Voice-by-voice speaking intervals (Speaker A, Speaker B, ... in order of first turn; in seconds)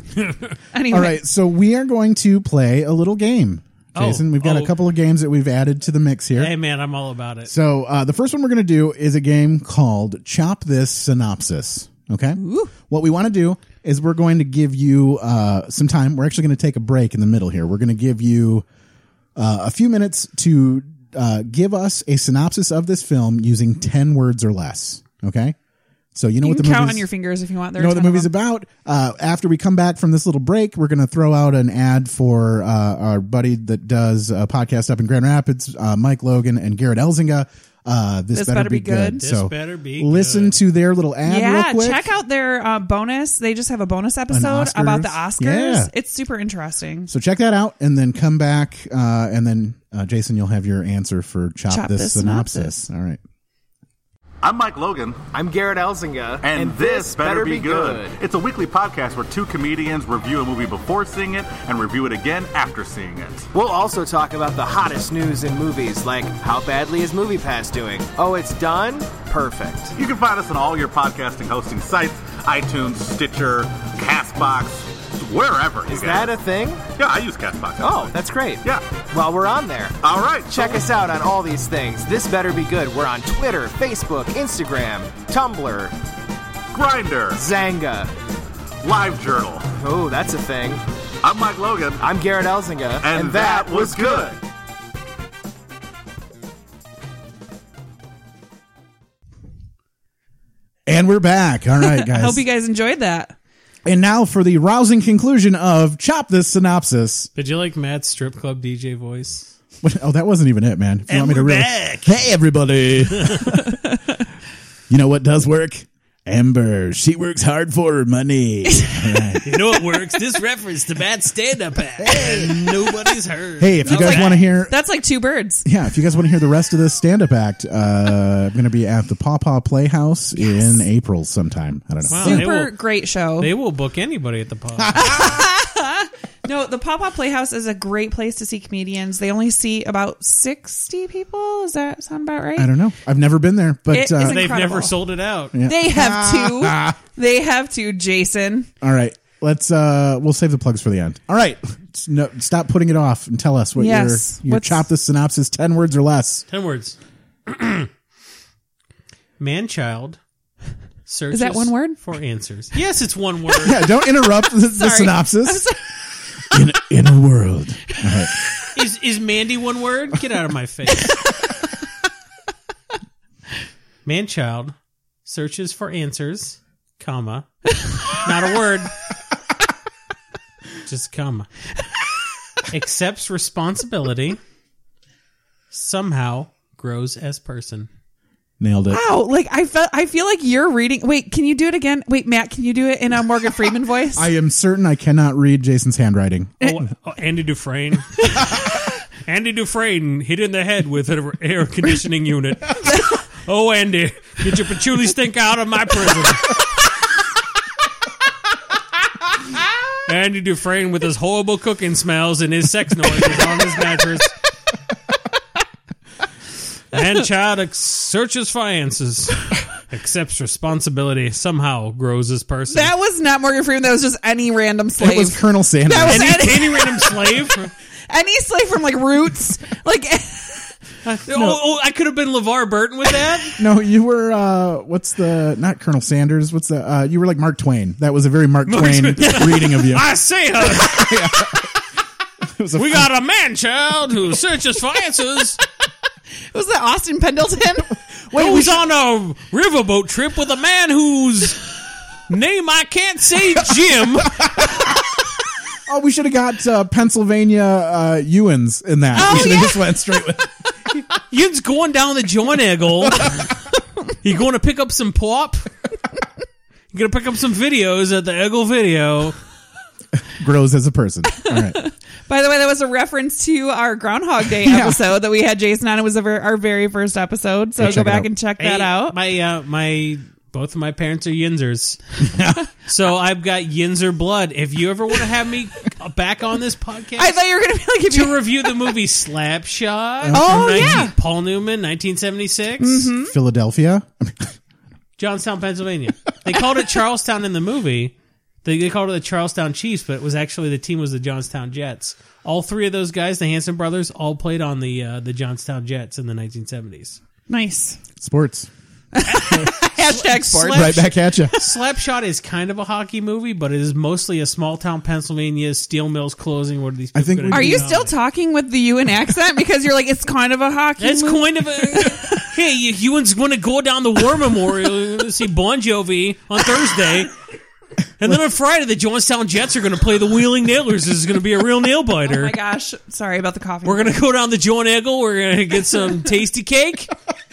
Speaker A: 0.1-0.5, 3.9-4.7, 6.4-7.5, 39.2-40.6, 107.3-109.5, 111.1-112.2, 119.4-124.5, 132.1-132.8, 133.3-135.4, 144.2-145.5, 156.5-156.9, 157.5-157.9, 159.4-160.2, 161.1-163.8, 168.7-171.2, 174.0-177.5, 178.1-178.9, 180.8-181.5, 182.7-184.4, 185.7-187.9, 196.6-206.6, 210.1-214.3, 216.9-222.9, 226.1-227.7, 231.0-233.6, 238.7-241.6, 242.8-245.6, 248.3-251.6, 252.3-254.4, 259.1-259.7, 261.3-263.4, 264.2-265.7, 266.9-269.4, 278.6-282.0, 282.9-287.4, 288.1-293.1, 295.2-298.1, 298.6-307.2, 309.3-318.1, 321.0-327.3, 328.2-332.5, 333.8-337.1
Speaker B: 0.7-1.2, 12.3-12.7, 26.4-28.3, 38.3-39.2, 41.2-47.1, 51.7-52.8, 101.8-103.3, 123.8-125.7, 130.3-130.8, 132.1-133.5, 134.9-142.7, 143.9-144.9, 145.6-148.7, 153.8-154.8, 161.3-162.0, 164.6-165.8, 171.0-171.5, 177.7-178.2, 188.9-194.3, 202.8-203.1, 222.7-227.3, 228.1-230.8, 246.5-247.9, 259.2-259.8, 271.3-279.2, 287.2-288.7, 290.3-291.1, 292.8-293.3, 307.5-308.0, 309.1-311.0, 317.5-322.5, 332.2-334.2
Speaker C: 0.9-6.5, 7.5-18.6, 19.4-25.6, 26.1-27.1, 27.8-42.1, 44.3-45.9, 47.1-53.2, 100.8-102.4, 103.8-107.3, 109.8-113.7, 114.9-119.7, 122.0-122.5, 123.6-124.7, 125.6-132.5, 142.6-144.5, 145.5-147.0, 148.8-156.4, 163.6-165.6, 166.5-168.3, 188.6-189.0, 194.1-196.8, 225.0-226.6, 231.3-231.6, 233.6-241.7, 242.4-243.1, 248.2-248.8, 255.9-261.0, 270.2-271.8, 274.6-275.1, 277.8-278.3, 282.2-282.7, 290.2-291.1, 293.1-294.5, 308.2-308.7, 310.7-311.6, 317.1-317.9
Speaker D: 54.4-55.2, 56.4-63.5, 70.0-76.4, 76.9-79.0, 80.0-80.9, 86.7-87.4, 88.8-89.7, 91.2-92.1, 93.0-94.4
Speaker E: 55.3-58.2, 63.5-70.0, 75.9-76.8, 77.8-85.9, 87.3-88.1, 89.8-90.8, 92.0-94.3